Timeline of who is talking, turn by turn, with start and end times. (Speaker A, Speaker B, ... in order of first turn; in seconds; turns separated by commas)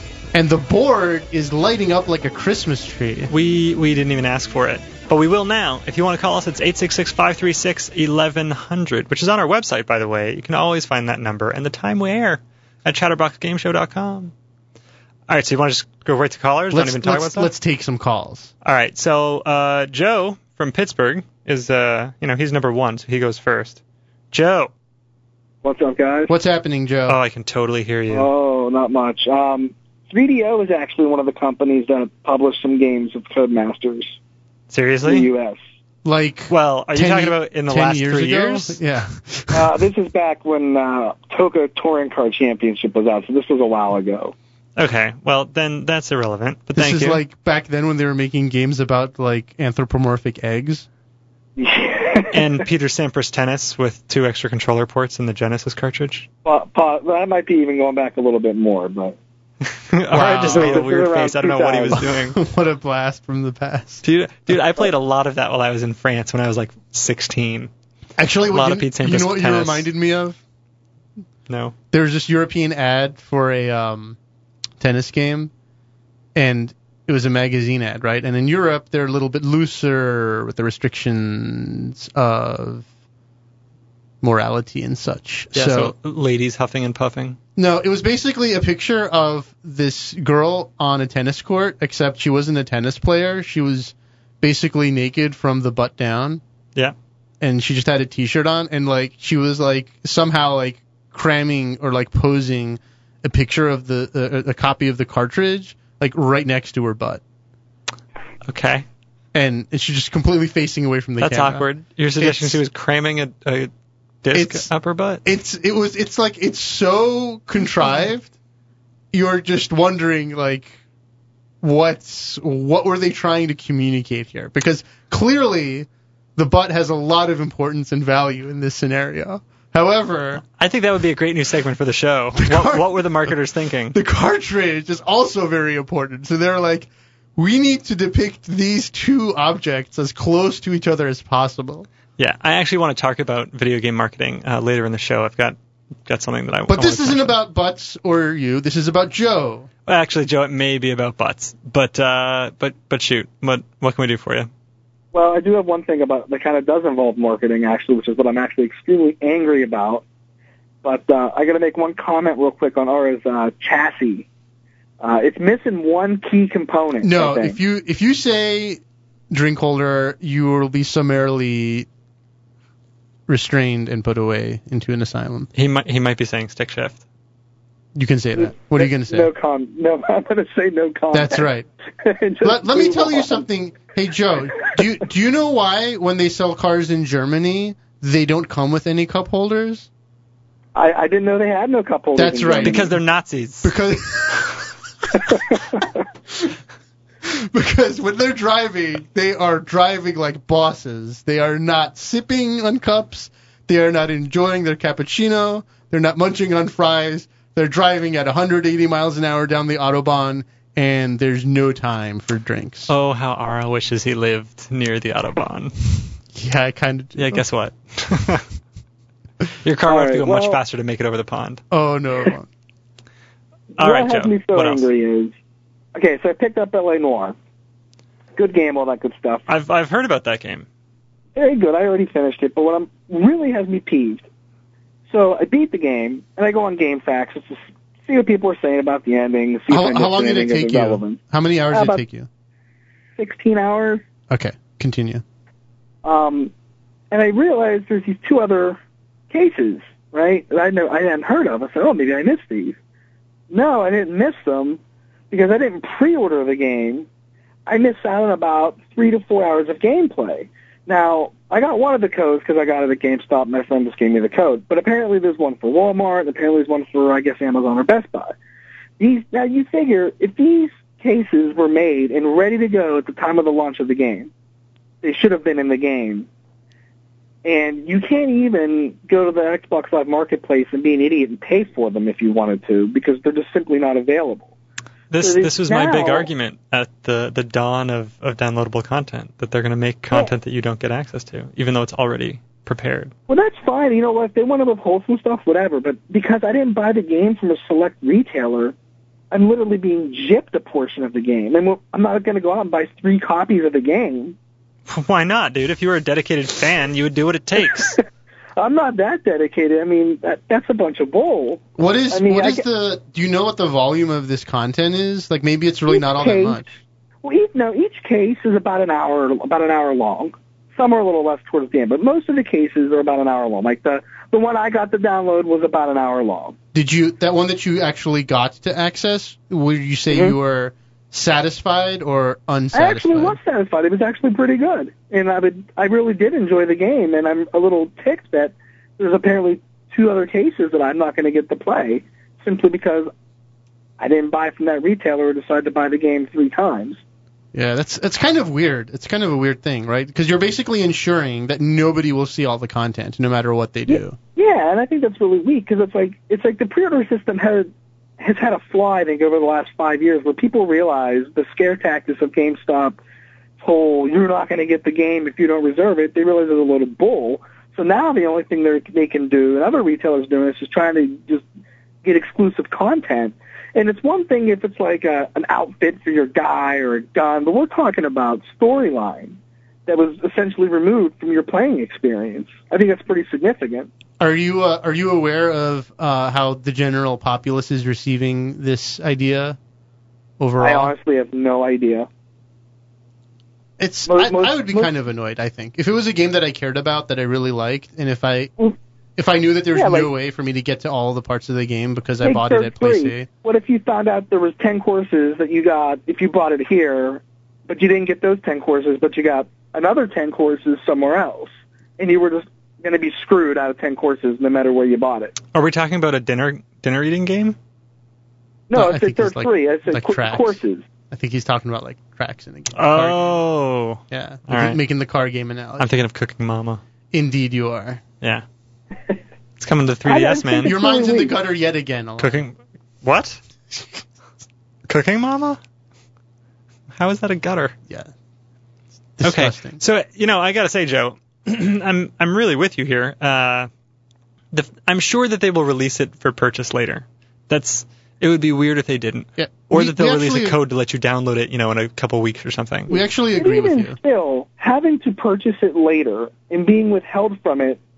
Speaker A: 0.3-3.3, Speaker B: 3.3-14.3, Speaker B: 15.3-17.5, Speaker A: 16.7-18.5, Speaker B: 18.6-23.8, Speaker B: 24.3-24.7, Speaker C: 25.6-26.3, Speaker A: 26.3-27.2, Speaker B: 27.1-28.3, Speaker C: 28.1-34.1, Speaker B: 34.7-35.3, Speaker C: 35.0-35.6, Speaker A: 36.0-39.8, Speaker B: 36.5-38.8, Speaker C: 39.5-44.3, Speaker B: 44.8-47.2, Speaker A: 46.7-50.9, Speaker C: 51.6-52.6, Speaker B: 52.3-56.3, Speaker C: 56.4-59.1, Speaker B: 59.6-62.4, Speaker A: 60.1-60.8, Speaker C: 60.5-62.0, Speaker A: 62.0-64.5, Speaker B: 64.0-67.7, Speaker A: 68.2-70.4, Speaker B: 68.5-69.9, Speaker B: 71.5-71.7, Speaker A: 71.9-74.2, Speaker A: 74.8-75.5, Speaker A: 76.3-82.9, Speaker A: 84.2-85.9, Speaker B: 85.5-87.4, Speaker A: 87.5-96.4, Speaker A: 97.4-107.2, Speaker B: 108.4-108.8, Speaker A: 109.3-112.6, Speaker B: 111.2-113.7, Speaker B: 114.2-115.2, Speaker A: 114.3-114.7, Speaker A: 115.2-118.3, Speaker A: 119.1-120.8, Speaker A: 121.6-130.4, Speaker B: 130.5-134.0, Speaker A: 132.4-133.3, Speaker A: 133.9-141.9, Speaker B: 142.2-147.3, Speaker A: 146.7-149.7, Speaker B: 149.8-154.5, Speaker C: 155.1-160.0, Speaker C: 160.8-164.3, Speaker C: 165.0-167.6, Speaker A: 167.0-171.9, Speaker A: 173.3-175.5, Speaker B: 175.5-177.0, Speaker A: 177.9-179.3, Speaker C: 178.3-181.5, Speaker A: 181.1-181.7, Speaker C: 182.0-183.4, Speaker A: 182.4-189.9, Speaker C: 190.7-192.9, Speaker A: 192.1-193.0, Speaker B: 192.6-193.7, Speaker A: 193.6-194.7, Speaker A: 197.2-212.9, Speaker B: 212.9-215.7, Speaker A: 216.3-217.4, Speaker B: 217.2-218.5, Speaker B: 219.6-221.6, Speaker C: 219.9-220.6, Speaker A: 221.7-222.5, Speaker B: 223.8-224.8, Speaker C: 223.8-225.3, Speaker C: 225.9-227.3, Speaker C: 228.3-229.5, Speaker B: 229.5-230.7, Speaker C: 231.3-234.2, Speaker C: 235.1-241.2, Speaker A: 239.7-242.3, Speaker C: 241.7-242.0, Speaker C: 243.2-244.0, Speaker A: 244.3-245.2, Speaker C: 246.0-246.5, Speaker C: 247.1-248.8, Speaker C: 249.3-252.8, Speaker C: 253.5-254.8, Speaker C: 255.3-257.1, Speaker C: 257.6-268.3, Speaker C: 269.0-274.3, Speaker C: 275.0-276.3, Speaker C: 277.4-284.5, Speaker B: 285.1-293.1, Speaker C: 285.2-286.3, Speaker C: 293.3-298.7, Speaker C: 299.3-304.4, Speaker B: 304.9-308.0, Speaker C: 308.6-312.6, Speaker A: 311.8-316.6, Speaker C: 315.9-316.6, Speaker C: 317.2-326.6, Speaker A: 326.7-333.4, Speaker C: 330.1-330.4, Speaker C: 332.7-343.1, Speaker C: 344.0-347.0, Speaker A: 347.5-354.1, Speaker C: 353.9-363.0, Speaker C: 363.6-371.4, Speaker C: 372.0-383.9, Speaker A: 384.2-389.6, Speaker A: 390.4-390.9, Speaker C: 390.6-392.1, Speaker A: 393.8-398.5, Speaker C: 394.1-394.9, Speaker A: 399.2-403.3, Speaker C: 399.7-400.1, Speaker C: 402.2-415.4, Speaker B: 415.5-417.6, Speaker C: 418.7-420.8, Speaker A: 418.7-420.6, Speaker A: 421.1-423.3, Speaker B: 422.7-424.8, Speaker A: 424.1-425.9, Speaker B: 425.8-426.8, Speaker A: 427.1-428.0, Speaker B: 429.6-430.7, Speaker C: 430.1-431.3, Speaker A: 430.6-432.4, Speaker B: 432.2-433.4, Speaker B: 434.9-435.6, Speaker B: 436.9-437.8, Speaker A: 439.2-439.8, Speaker B: 439.2-443.7, Speaker B: 444.5-452.9, Speaker A: 449.4-450.6, Speaker A: 452.9-454.0, Speaker C: 452.9-457.8